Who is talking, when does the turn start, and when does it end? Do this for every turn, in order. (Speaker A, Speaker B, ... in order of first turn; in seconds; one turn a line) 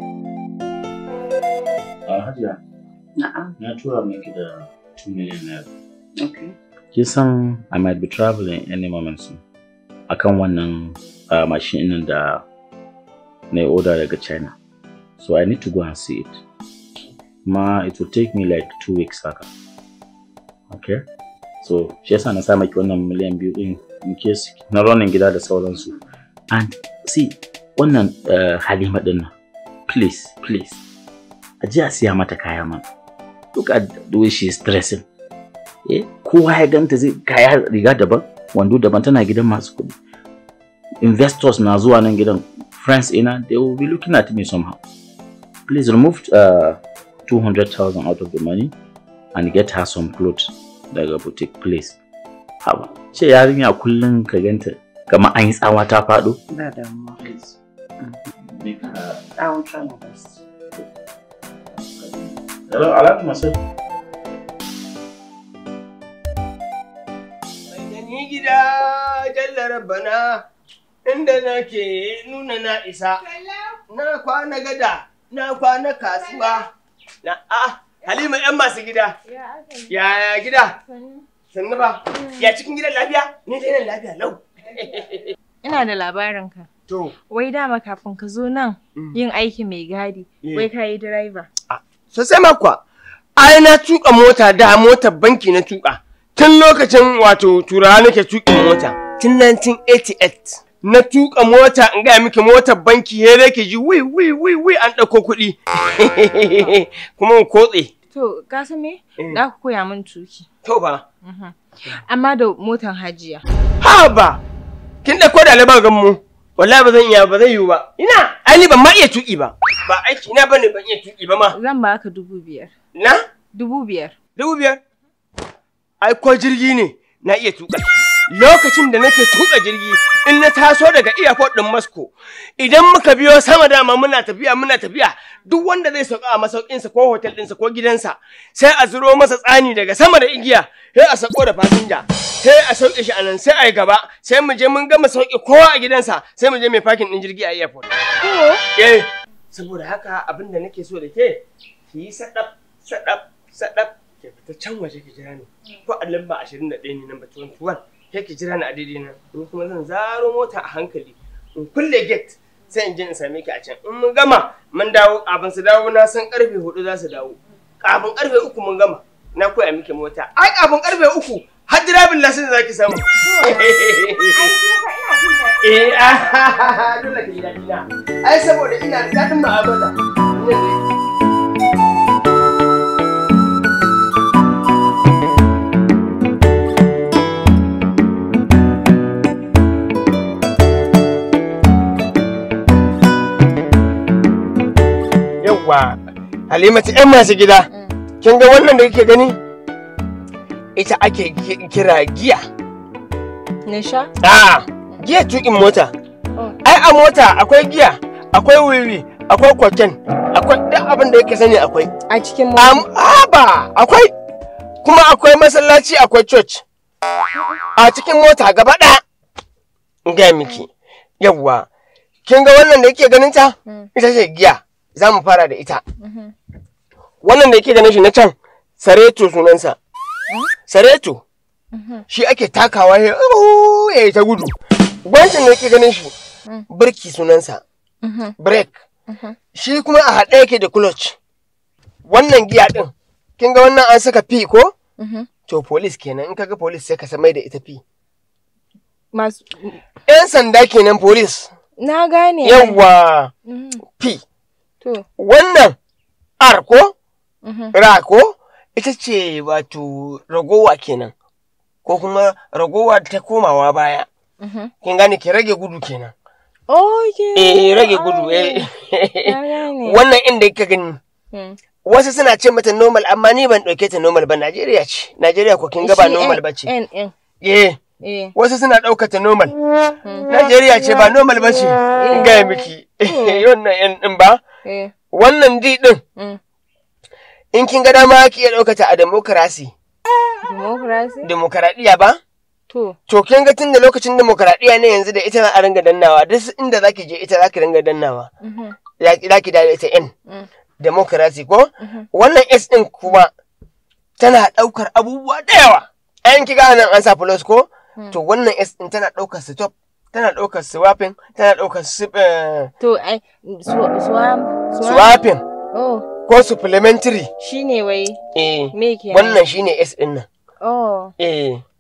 Speaker A: 2.1-2.6
Speaker B: 3.2-3.5
Speaker A: 3.6-5.7
Speaker B: 6.2-6.5
Speaker A: 6.9-9.4
Speaker A: 10.1-12.4
Speaker A: 13.5-14.6
Speaker A: 15.2-16.4
Speaker A: 17.5-19.5
Speaker A: 20.7-21.0
Speaker A: 21.6-25.9
Speaker A: 26.5-29.3
Speaker A: 29.9-30.8
Speaker A: 31.6-32.9
Speaker A: 33.5-35.0
Speaker A: 35.9-40.0
Speaker A: 41.0-44.8
Speaker A: 45.7-48.7
Speaker A: 49.3-52.0
Speaker A: 52.6-56.4
Speaker B: 56.5-57.2
Speaker A: 57.2-57.6
Speaker A: 58.4-59.3
Speaker B: 59.4-60.4
Speaker A: 61.8-63.6
Speaker C: 67.7-70.4
Speaker C: 71.1-73.2
Speaker D: 73.2-73.8
Speaker C: 73.9-76.7
Speaker C: 77.2-79.2
Speaker D: 79.2-80.0
Speaker C: 79.9-80.8
Speaker D: 80.7-81.2
Speaker C: 81.5-85.3
Speaker D: 82.1-82.5
Speaker D: 85.6-86.7
Speaker C: 86.9-87.1
Speaker D: 87.3-91.5
Speaker C: 90.4-90.7
Speaker C: 91.7-92.8
Speaker C: 93.4-107.9
Speaker D: 108.1-110.5
Speaker C: 110.7-111.0
Speaker D: 111.2-113.4
Speaker C: 113.8-114.4
Speaker C: 115.0-121.6
Speaker D: 121.5-122.7
Speaker C: 123.0-123.2
Speaker D: 123.5-124.2
Speaker C: 124.4-124.8
Speaker C: 126.0-147.9
Speaker D: 148.2-148.6
Speaker C: 148.8-174.5
Speaker D: 173.1-176.6
Speaker C: 175.6-180.8
Speaker C: 195.4-196.0
Speaker C: 196.5-197.7
Speaker C: 198.2-199.4
Speaker C: 200.8-202.4
Speaker D: 203.7-204.1
Speaker C: 204.2-205.9
Speaker C: 206.6-211.9
Speaker D: 212.1-212.9
Speaker C: 212.6-214.1
Speaker C: 214.8-216.6
Speaker C: 217.8-219.0
Speaker C: 220.1-220.7
Speaker C: 221.2-221.7
Speaker C: 222.3-225.8
Speaker D: 226.0-226.3
Speaker C: 227.2-229.8
Speaker C: 230.7-231.2
Speaker D: 231.7-232.1
Speaker C: 232.1-236.1
Speaker C: 236.7-237.6
Speaker D: 238.0-238.3
Speaker C: 238.4-238.8
Speaker D: 239.1-239.4
Speaker C: 239.5-241.2
Speaker C: 242.1-244.7
Speaker D: 245.0-245.3
Speaker C: 245.5-247.8
Speaker D: 249.1-249.8
Speaker C: 250.1-251.5
Speaker D: 251.8-252.8
Speaker C: 252.4-253.3
Speaker D: 253.5-253.8
Speaker C: 255.2-255.8
Speaker C: 256.4-256.9
Speaker D: 257.4-257.7
Speaker C: 257.7-261.1
Speaker C: 261.9-264.1
Speaker D: 264.4-264.7
Speaker C: 264.8-266.1
Speaker D: 266.7-268.7
Speaker C: 267.4-271.0
Speaker D: 269.2-270.0
Speaker C: 271.9-276.7
Speaker D: 275.8-277.1
Speaker C: 277.4-277.8
Speaker D: 278.0-278.4
Speaker C: 278.4-279.6
Speaker C: 280.3-284.4
Speaker D: 281.9-282.4
Speaker D: 283.1-283.4
Speaker D: 284.6-284.9
Speaker C: 285.1-286.0
Speaker C: 287.5-289.7
Speaker D: 290.4-291.3
Speaker C: 291.2-292.2
Speaker D: 292.7-293.0
Speaker C: 293.1-298.3
Speaker D: 298.4-298.8
Speaker C: 299.0-300.1
Speaker C: 300.8-303.3
Speaker D: 301.8-302.1
Speaker C: 304.2-312.7
Speaker D: 312.8-315.2
Speaker C: 314.8-315.4
Speaker D: 315.7-316.1
Speaker C: 316.3-317.3
Speaker D: 317.4-318.2
Speaker C: 318.4-320.3
Speaker D: 318.7-319.4
Speaker D: 320.6-321.1
Speaker C: 321.2-321.6